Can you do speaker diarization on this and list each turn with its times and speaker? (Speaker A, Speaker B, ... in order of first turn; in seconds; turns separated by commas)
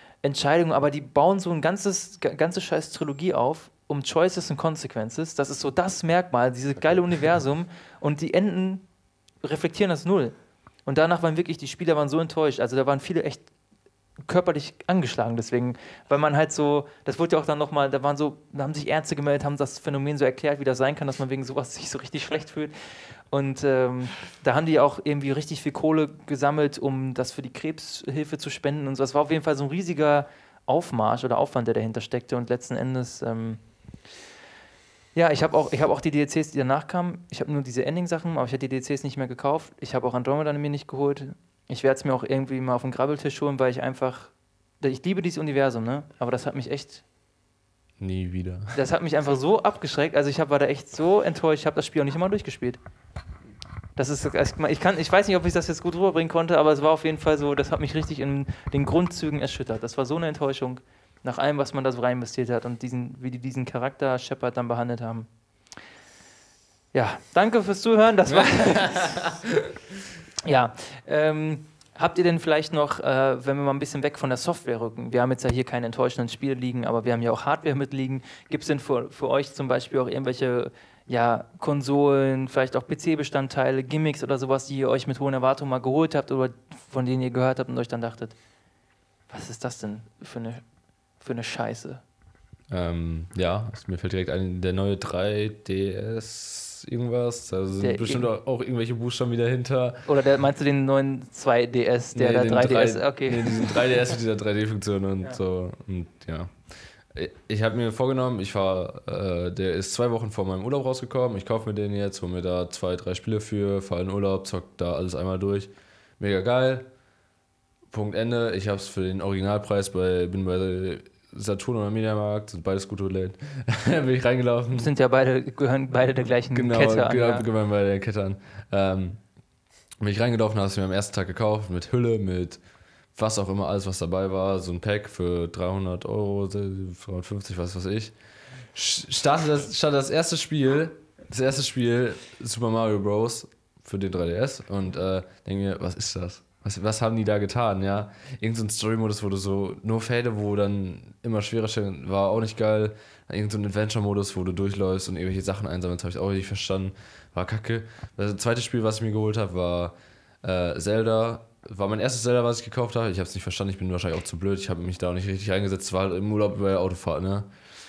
Speaker A: 0.2-8.9, Speaker A: 9.4-13.5, Speaker A: 14.2-22.7, Speaker A: 23.3-33.6, Speaker A: 35.1-47.0, Speaker B: 48.0-48.8, Speaker A: 48.7-52.8, Speaker A: 54.0-65.3, Speaker A: 66.9-69.3, Speaker B: 68.3-69.5, Speaker A: 70.4-88.4, Speaker A: 89.3-90.6, Speaker A: 91.2-92.0, Speaker B: 92.7-100.0, Speaker A: 97.8-98.3, Speaker A: 100.1-104.1, Speaker B: 102.2-116.9, Speaker B: 117.9-124.9, Speaker A: 124.7-127.5, Speaker B: 126.5-129.2, Speaker B: 130.0-132.6, Speaker B: 133.2-138.2, Speaker B: 138.7-167.5